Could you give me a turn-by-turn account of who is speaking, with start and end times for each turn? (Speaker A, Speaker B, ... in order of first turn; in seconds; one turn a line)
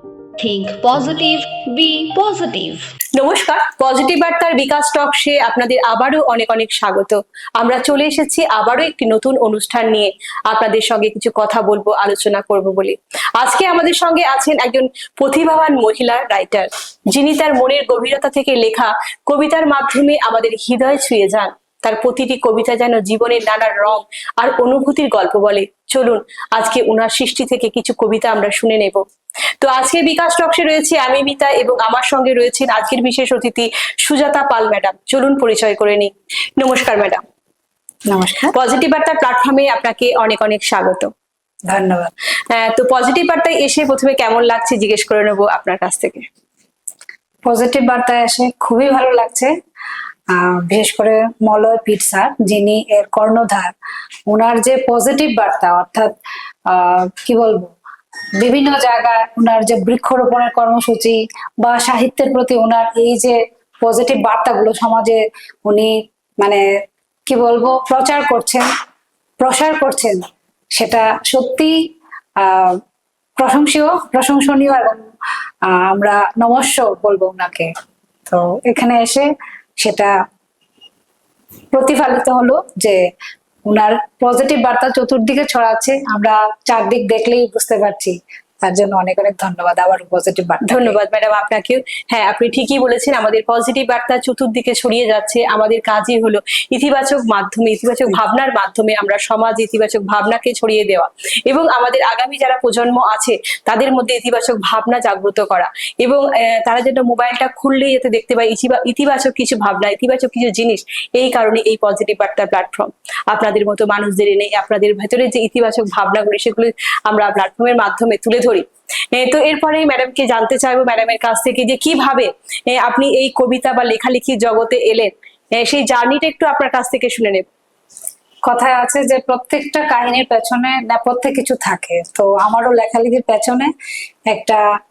Speaker A: 0.4-2.8
Speaker B: 3.1-29.0
Speaker B: 29.6-37.2
Speaker C: 38.1-38.5
Speaker B: 38.5-41.1
Speaker C: 41.7-42.1
Speaker B: 42.5-46.2
Speaker C: 47.5-49.5
Speaker C: 50.3-53.7
Speaker C: 54.3-56.1
Speaker C: 56.7-57.7
Speaker C: 58.4-66.6
Speaker C: 67.3-68.7
Speaker C: 69.4-70.2
Speaker C: 70.7-71.8
Speaker C: 72.4-72.8
Speaker C: 73.4-75.0
Speaker C: 75.7-77.7
Speaker C: 78.3-80.2
Speaker C: 81.7-83.0
Speaker C: 83.7-91.0
Speaker B: 90.6-127.5
Speaker C: 128.4-133.7
Speaker C: 134.3-134.6